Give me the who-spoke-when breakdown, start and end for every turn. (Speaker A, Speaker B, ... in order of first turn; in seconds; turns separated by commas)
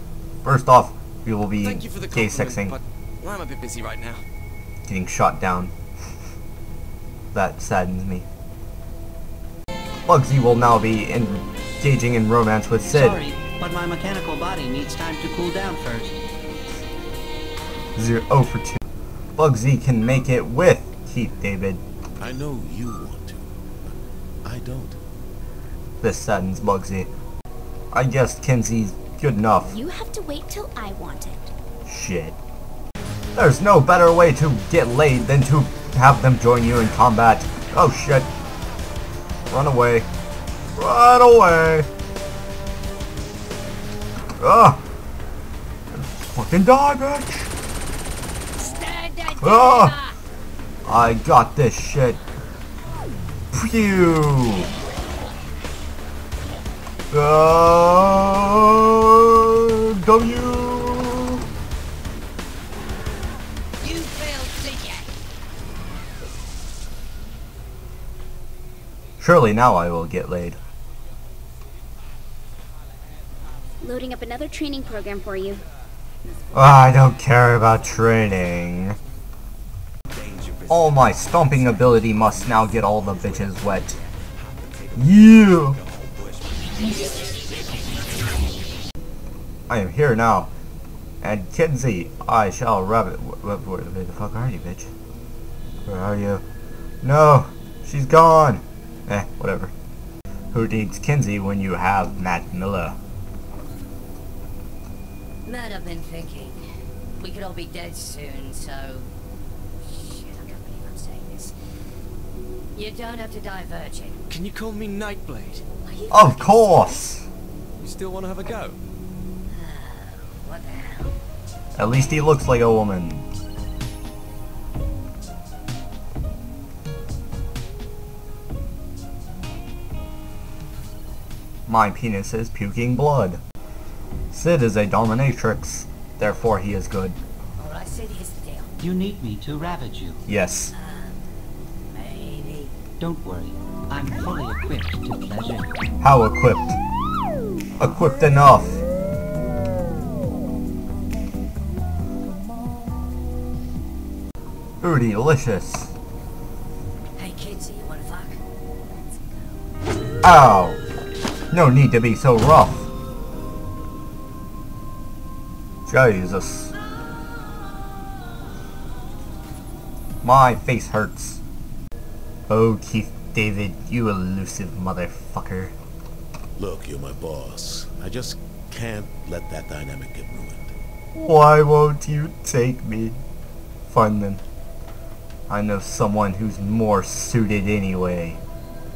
Speaker A: 0.4-2.8, Speaker B: 1.6-4.2, Speaker A: 4.9-5.7, Speaker A: 7.3-8.2, Speaker A: 10.1-13.2, Speaker C: 12.9-16.2, Speaker A: 18.0-18.8, Speaker A: 19.4-21.8, Speaker D: 22.2-23.9, Speaker D: 24.4-25.0, Speaker A: 26.0-27.1, Speaker A: 27.9-29.8, Speaker E: 29.7-31.5, Speaker A: 31.8-32.4, Speaker A: 33.3-38.3, Speaker A: 39.5-40.1, Speaker A: 40.8-41.9, Speaker A: 44.4-44.8, Speaker A: 45.9-47.5, Speaker F: 48.5-50.1, Speaker A: 49.4-50.0, Speaker A: 50.9-52.2, Speaker A: 53.5-54.7, Speaker A: 57.1-61.4, Speaker F: 63.8-65.1, Speaker A: 69.2-70.6, Speaker E: 73.8-75.6, Speaker A: 76.5-79.0, Speaker A: 80.7-84.0, Speaker A: 84.9-85.8, Speaker A: 89.7-90.5, Speaker A: 91.2-94.9, Speaker A: 95.8-96.4, Speaker A: 97.0-99.7, Speaker A: 100.5-103.0, Speaker F: 105.4-106.6, Speaker F: 107.2-109.1, Speaker F: 109.8-111.5, Speaker F: 112.7-114.2, Speaker B: 114.3-115.6, Speaker F: 115.8-116.9, Speaker A: 116.1-117.2, Speaker B: 117.8-118.8, Speaker F: 119.5-121.2, Speaker A: 121.8-123.2, Speaker A: 131.7-133.4, Speaker A: 134.3-137.2, Speaker F: 137.6-138.7, Speaker C: 138.8-140.2, Speaker A: 140.3-140.7, Speaker F: 140.7-141.3, Speaker F: 141.9-142.7, Speaker C: 143.0-145.8, Speaker A: 146.0-146.8, Speaker A: 147.8-148.8, Speaker A: 154.8-155.9, Speaker F: 157.2-159.6, Speaker A: 160.2-160.8, Speaker A: 161.5-162.9, Speaker A: 165.9-166.7, Speaker A: 170.2-171.4, Speaker A: 172.5-175.7, Speaker D: 176.5-180.7, Speaker A: 181.2-183.2, Speaker A: 183.9-184.4, Speaker A: 185.5-188.4